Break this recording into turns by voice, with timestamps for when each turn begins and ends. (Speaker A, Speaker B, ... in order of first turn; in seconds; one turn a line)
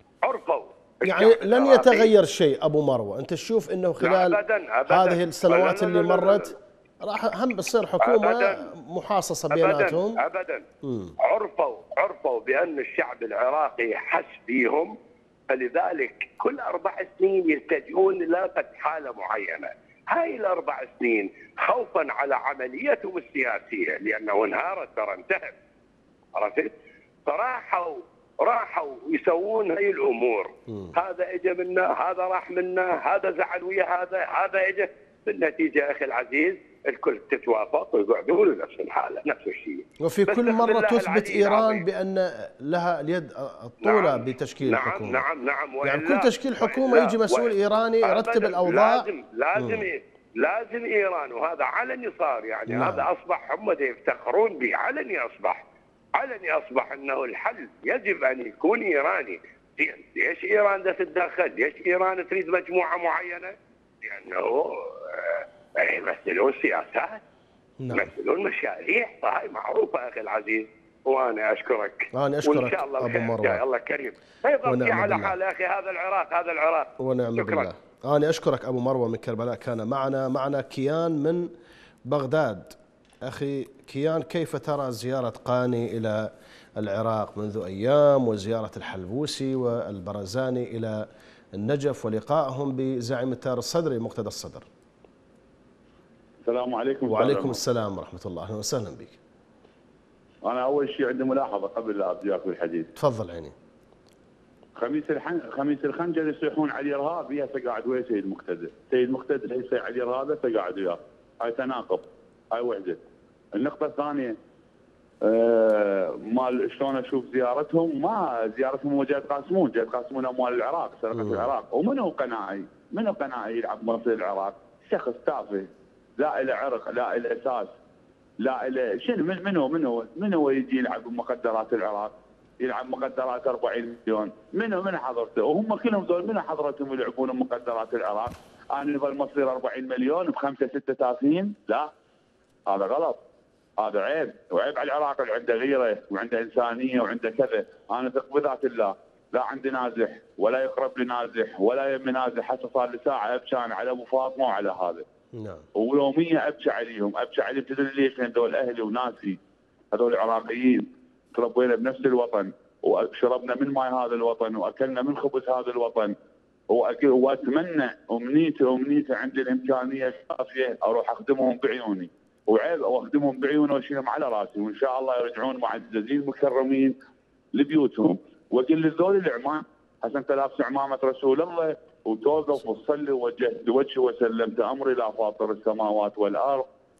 Speaker A: 0.2-2.1
Speaker B: 1.0-10.2
Speaker A: 4.0-6.5
Speaker A: 8.0-8.7
Speaker A: 9.5-10.6
Speaker B: 10.8-11.2
Speaker A: 11.2-14.9
Speaker A: 15.5-25.6
Speaker A: 26.4-26.7
Speaker A: 27.2-41.8
Speaker B: 30.7-30.9
Speaker B: 40.0-45.3
Speaker A: 43.8-55.6
Speaker B: 45.8-49.9
Speaker B: 52.7-53.1
Speaker A: 56.2-67.2
Speaker B: 67.8-68.1
Speaker A: 67.9-77.7
Speaker B: 72.1-73.6
Speaker B: 74.7-75.4
Speaker B: 77.0-81.5
Speaker B: 82.0-94.7
Speaker C: 96.5-97.6
Speaker B: 97.1-99.2
Speaker C: 100.4-102.9
Speaker B: 103.0-103.5
Speaker C: 104.8-113.0
Speaker C: 113.6-114.4
Speaker C: 115.2-127.7
Speaker B: 121.1-121.5
Speaker C: 128.4-141.9
Speaker C: 142.7-143.2
Speaker C: 143.8-155.0
Speaker B: 155.3-155.7
Speaker C: 155.8-159.4
Speaker C: 159.9-166.2
Speaker C: 166.7-176.9
Speaker C: 177.5-186.7